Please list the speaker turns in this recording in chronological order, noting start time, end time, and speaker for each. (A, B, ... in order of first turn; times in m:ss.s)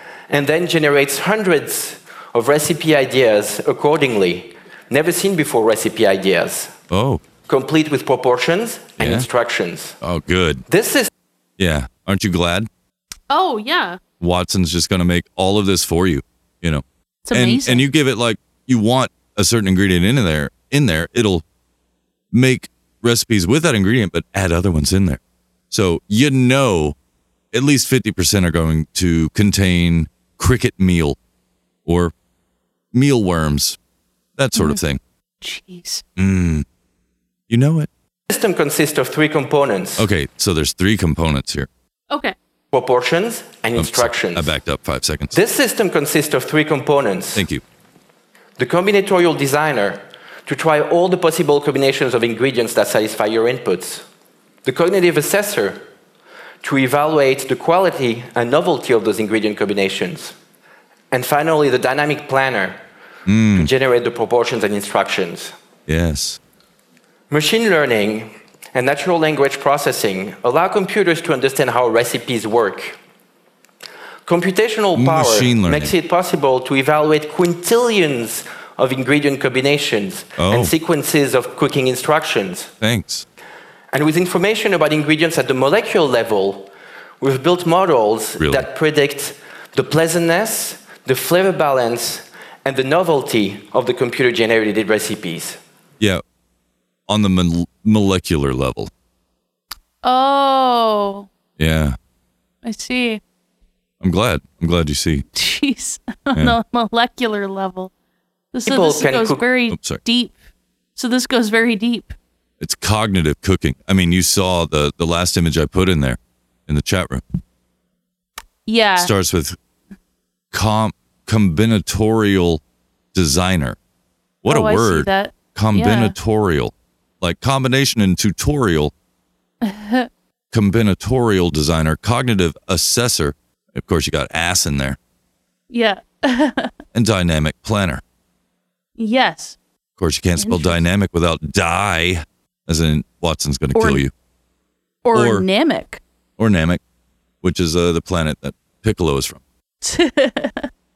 0:00.3-0:06.7 A
0:06.9-0:07.2 B
0:07.5-0:10.0 A
0:09.0-0:09.3 B
0:10.0-0:10.6 B
0:10.7-0:11.1 A
0:11.6-0:12.7 B
0:13.3-0:14.0 C
0:14.2-0:21.4 B
0:17.3-0:17.8 C
0:22.3-0:25.2 B
0:25.7-0:27.0 B
0:27.5-0:31.2 B
0:31.9-0:32.1 B
0:32.9-0:33.8 B
0:34.4-0:35.0 B
0:34.6-0:34.8 C
0:35.4-0:36.0 C
0:36.2-0:36.6 B
0:37.5-0:37.9 B
0:38.3-0:40.1 A
0:40.0-0:41.7 B
0:42.7-0:44.5 A
0:43.8-0:45.4 B
0:45.3-0:47.4 A
0:47.4-0:47.6 B
0:48.6-0:54.0 A
0:54.6-0:55.8 A
0:56.6-1:00.4 A
1:01.1-1:02.8 A
1:03.3-1:03.7 B
1:03.6-1:05.5 A
1:05.9-1:06.4 B
1:07.3-1:13.0 A
1:14.3-1:22.7 A
1:15.0-1:15.9 B
1:20.4-1:20.7 B
1:22.8-1:23.2 B
1:23.9-1:35.6 A
1:28.4-1:28.7 B
1:37.1-1:38.9 B
1:40.0-1:41.3 C
1:41.6-1:42.0 B
1:42.6-1:43.2 C
1:44.0-1:45.2 B
1:45.3-1:47.9 C
1:48.5-1:50.4 C
1:48.6-1:49.4 A
1:49.7-1:50.0 B
1:51.0-1:52.1 C
1:52.6-1:57.2 B
1:58.7-1:59.1 C
1:59.0-1:59.6 B
2:00.5-2:02.6 B
2:03.1-2:03.8 B
2:04.4-2:08.9 B
2:04.5-2:06.2 C
2:09.6-2:10.1 C
2:10.5-2:15.0 B
2:15.7-2:16.7 C
2:16.9-2:18.0 B
2:19.0-2:19.6 C
2:20.0-2:24.1 B
2:20.4-2:20.8 C
2:23.8-2:24.0 C
2:25.0-2:26.0 C
2:25.1-2:25.4 B
2:26.4-2:26.8 B
2:27.4-2:29.4 B
2:29.8-2:30.7 C